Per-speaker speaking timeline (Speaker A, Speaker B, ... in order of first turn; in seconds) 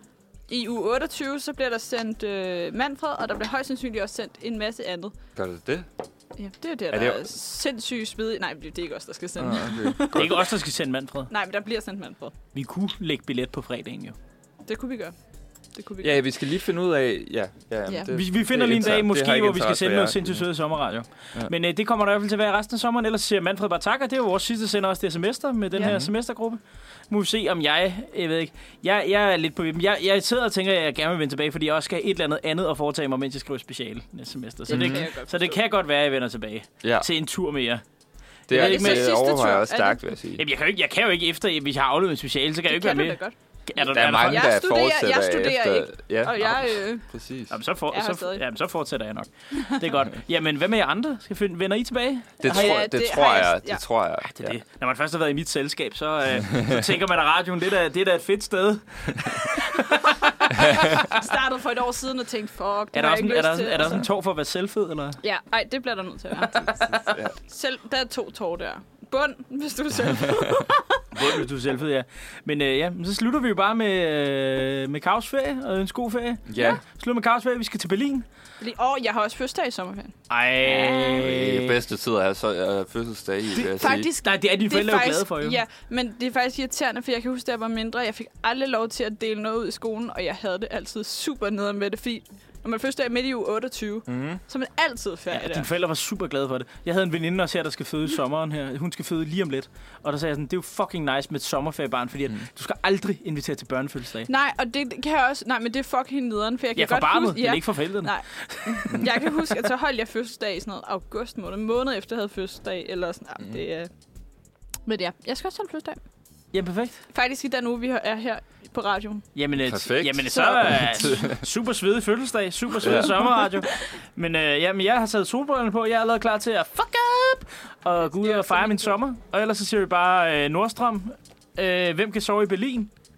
Speaker A: 0.5-5.2, 6.4-10.4, 11.3-12.3, 14.7-15.1, 15.7-16.2, 17.9-18.1, 34.7-35.6, 38.5-40.0, 42.7-47.1, 47.9-48.4, 52.4-53.8, 61.0-64.0, 65.2-71.3, 78.6-80.1, 80.7-81.2, 83.8-95.7, 104.3-113.9, 114.8-116.0, 117.1-119.3, 120.3-121.2, 122.8-123.4, 128.0-129.0
Speaker B: 5.3-5.8, 6.9-7.2, 9.4-10.3, 16.0-20.5, 25.8-26.1, 34.7-35.0, 38.5-40.4, 43.9-47.6, 52.4-54.6, 66.9-67.3, 76.5-76.8, 81.2-84.1, 94.1-94.4, 119.6-121.4, 122.8-123.1
Speaker C: 10.1-11.3, 12.5-14.2, 18.1-37.8, 38.5-39.1, 40.4-44.5, 47.5-52.7, 54.2-61.0, 62.9-65.2, 71.1-78.2, 80.3-81.8, 83.6-85.6, 95.3-104.3, 106.8-109.3, 116.5-117.0, 119.3-132.9